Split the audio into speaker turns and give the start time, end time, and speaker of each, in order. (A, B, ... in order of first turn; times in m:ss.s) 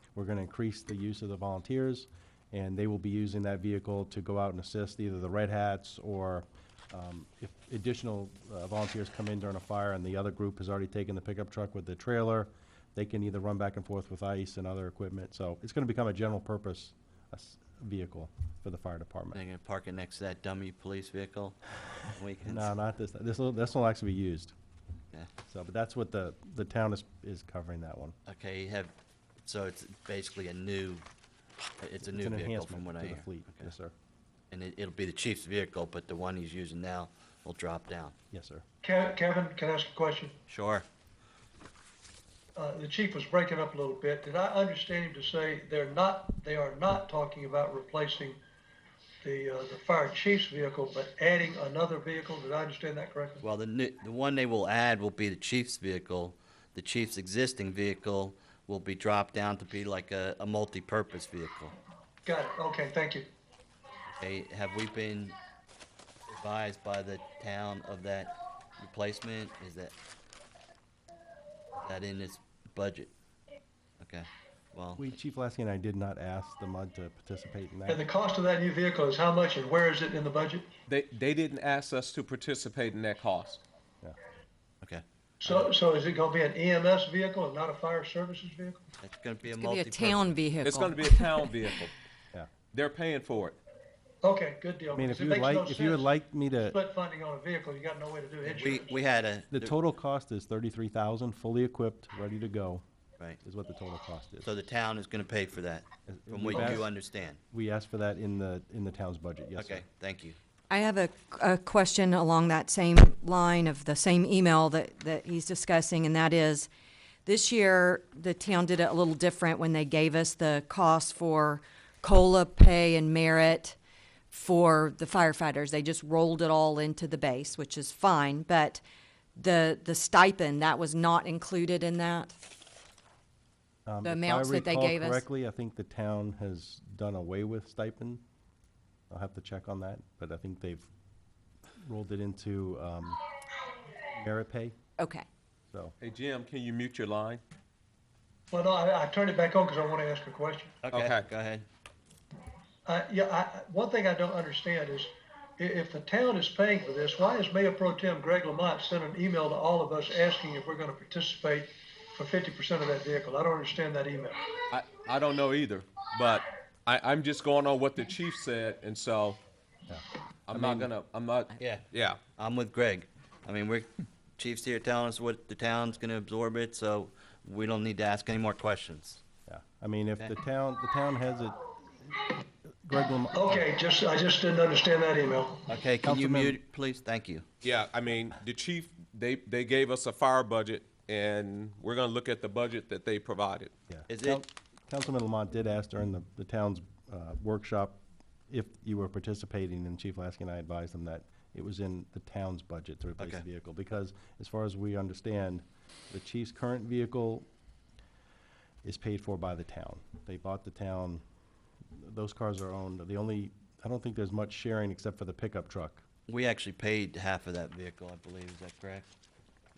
0:00.1-0:19.4 A
0:19.3-0:21.6 B
0:22.1-0:22.7 B
0:22.4-0:24.5 A
0:25.5-0:28.2 A
0:28.2-0:28.9 B
0:29.4-0:31.0 B
0:31.8-0:33.7 B
0:32.0-0:33.9 A
0:34.5-0:38.1 B
0:38.3-0:38.6 A
0:38.8-0:40.3 C
0:40.5-0:40.8 B
0:42.5-0:48.4 C
0:49.2-0:53.4 C
0:53.4-1:01.8 B
1:02.2-1:03.2 C
1:04.1-1:05.4 B
1:06.3-1:09.9 B
1:11.8-1:13.1 B
1:14.0-1:15.1 B
1:15.0-1:18.0 A
1:17.9-1:20.7 C
1:20.9-1:23.6 D
1:24.8-1:25.5 B
1:25.4-1:28.8 C
1:29.0-1:30.4 B
1:29.5-1:31.6 E
1:30.6-1:31.9 D
1:32.7-1:33.6 D
1:34.2-1:36.1 C
1:34.9-1:36.8 A
1:36.7-1:39.0 C
1:38.5-1:39.7 B
1:39.5-1:42.8 A
1:43.4-1:44.5 A
1:44.4-1:47.4 B
1:46.1-1:46.9 A
1:47.5-1:49.8 A
1:49.6-1:50.4 B
1:50.7-1:56.7 E
1:57.2-2:03.8 E
2:04.3-2:08.8 E
2:09.4-2:12.3 E
2:13.8-2:18.2 A
2:14.0-2:15.2 E
2:19.1-2:20.9 A
2:21.8-2:23.2 A
2:24.0-2:24.8 A
2:25.0-2:25.2 E
2:25.7-2:25.9 A
2:26.0-2:27.4 D
2:28.5-2:30.8 C
2:30.8-2:31.6 B
2:30.9-2:31.2 D
2:32.8-2:44.4 C
2:44.7-2:49.4 D
2:49.9-2:50.9 A
2:50.5-2:52.2 D
2:51.6-2:59.2 B
2:59.5-3:02.3 A
3:02.8-3:03.6 A
3:03.3-3:05.6 C
3:05.7-3:07.5 B
3:06.0-3:06.6 A
3:07.6-3:13.7 D
3:13.9-3:27.5 A
3:14.1-3:14.4 B
3:23.2-3:23.4 B
3:28.8-3:31.2 A
3:32.0-3:36.0 A
3:36.3-3:39.0 B